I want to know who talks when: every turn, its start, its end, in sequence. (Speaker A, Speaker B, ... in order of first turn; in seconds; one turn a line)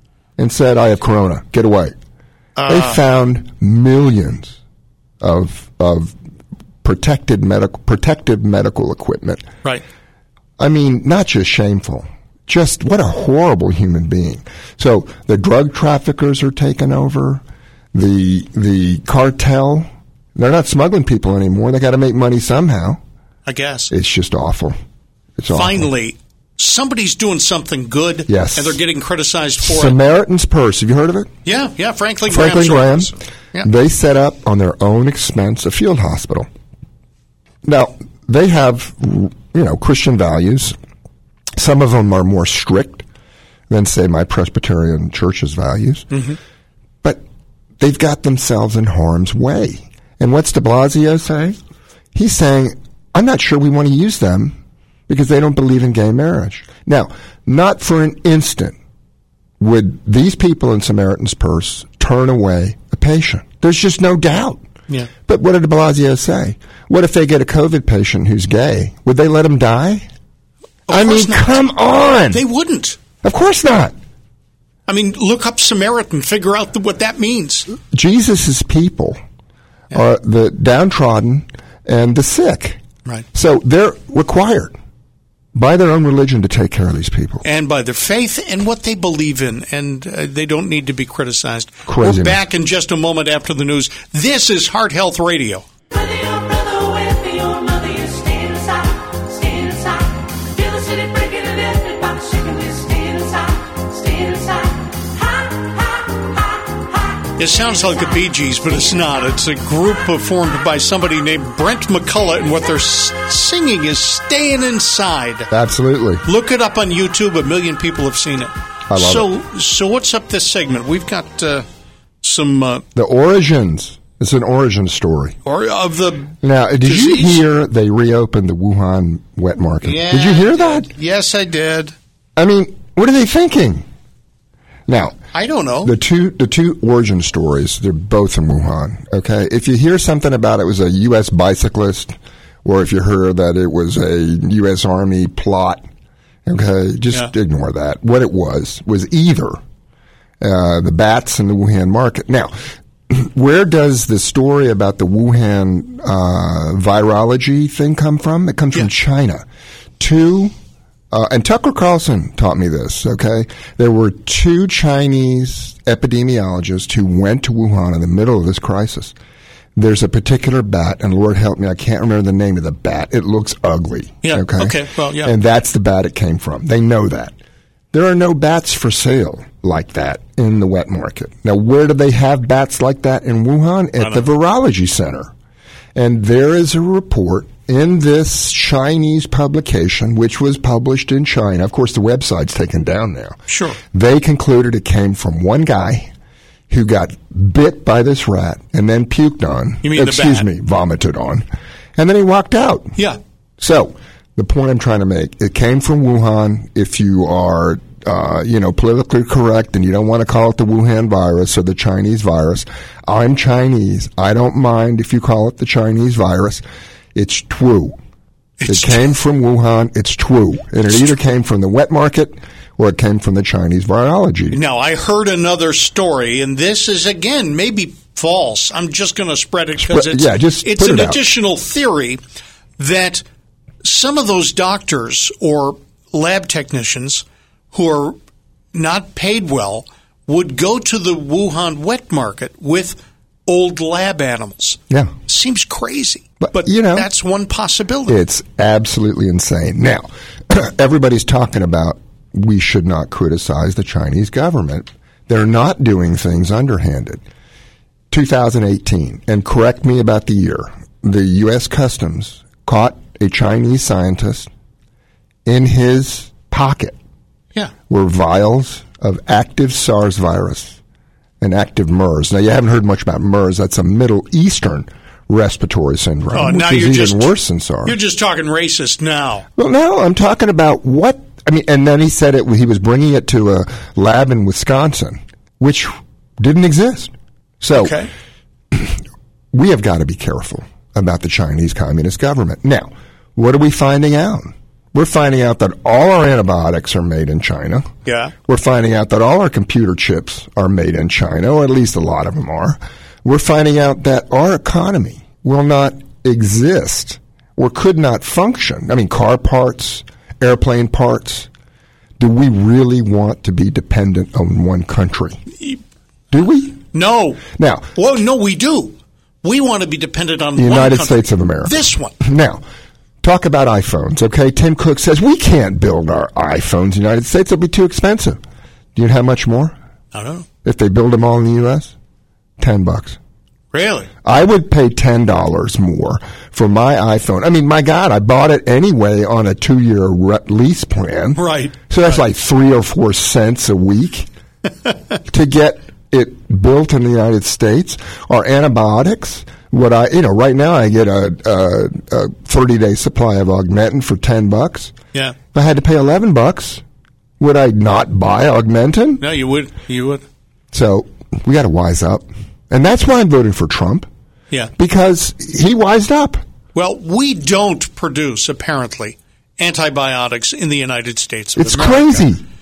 Speaker A: 0.4-1.9
Speaker B: 2.6-3.0
Speaker A: 2.7-4.6
Speaker A: 5.2-6.2
Speaker A: 6.8-9.5
Speaker A: 10.6-23.0
Speaker B: 23.5-23.9
Speaker A: 23.9-24.8
Speaker A: 25.4-25.9
Speaker B: 25.5-30.0
Speaker A: 28.3-28.8
Speaker A: 29.6-31.3
Speaker B: 31.4-33.7
Speaker A: 32.3-36.5
Speaker A: 37.6-40.8
Speaker A: 41.6-43.1
Speaker A: 43.7-46.2
Speaker B: 46.1-46.4
Speaker A: 47.8-51.6
Speaker A: 52.1-54.6
Speaker A: 55.1-58.8
Speaker A: 59.6-64.6
Speaker A: 65.3-70.1
Speaker B: 70.9-71.7
Speaker A: 70.9-72.4
Speaker B: 72.3-73.0
Speaker A: 73.2-74.0
Speaker B: 74.9-77.7
Speaker A: 77.7-79.2
Speaker A: 79.9-82.8
Speaker A: 83.3-84.8
Speaker A: 85.5-87.4
Speaker B: 87.4-95.7
Speaker A: 91.9-92.4
Speaker C: 96.2-98.6
Speaker C: 101.1-103.4
Speaker C: 104.2-104.4
Speaker B: 107.4-115.5
Speaker A: 115.5-116.2
Speaker B: 116.2-121.7
Speaker A: 118.9-119.3
Speaker B: 122.2-122.8
Speaker A: 123.0-125.4
Speaker B: 125.5-127.4
Speaker A: 126.4-130.9
Speaker B: 129.8-131.9
Speaker A: 132.4-133.9
Speaker A: 134.9-135.2
Speaker B: 135.3-135.9
Speaker A: 135.8-145.8
Speaker A: 146.5-149.6
Speaker A: 150.4-152.6
Speaker A: 153.1-159.5
Speaker A: 160.0-160.5
Speaker A: 161.1-169.2
Speaker A: 169.8-177.3
Speaker B: 174.2-175.3
Speaker A: 177.9-185.3
Speaker B: 184.0-184.3
Speaker A: 185.9-193.4
Speaker B: 193.5-193.8
Speaker A: 193.9-196.1
Speaker A: 196.7-203.0
Speaker B: 199.8-200.5
Speaker A: 203.6-216.6
Speaker A: 217.2-218.0
Speaker B: 218.6-219.1
Speaker A: 218.7-224.6
Speaker B: 224.5-232.2
Speaker A: 229.8-231.2
Speaker B: 232.8-233.2
Speaker B: 233.8-238.2
Speaker B: 238.7-248.2
Speaker A: 246.4-247.1
Speaker A: 248.1-257.2
Speaker A: 258.1-264.5
Speaker A: 265.4-267.0
Speaker A: 267.9-270.8
Speaker A: 271.4-278.0
Speaker B: 276.3-279.5
Speaker A: 279.6-288.0
Speaker B: 287.7-288.1
Speaker A: 288.7-289.0
Speaker A: 289.5-297.9
Speaker B: 298.1-298.3
Speaker A: 298.4-311.5
Speaker A: 312.2-315.4
Speaker A: 316.3-316.8
Speaker B: 316.9-317.4
Speaker A: 317.5-317.9
Speaker B: 317.9-322.2
Speaker A: 320.6-322.6
Speaker A: 323.2-328.4
Speaker A: 328.9-329.8
Speaker B: 330.1-330.5
Speaker A: 330.6-331.9
Speaker A: 332.6-333.2
Speaker B: 333.7-334.1
Speaker A: 334.2-344.3
Speaker B: 341.4-342.2
Speaker A: 345.3-354.9
Speaker A: 355.5-356.8
Speaker A: 357.4-359.2
Speaker B: 359.2-360.2
Speaker A: 360.7-364.1
Speaker A: 364.8-366.4
Speaker B: 366.7-372.3
Speaker A: 371.6-372.4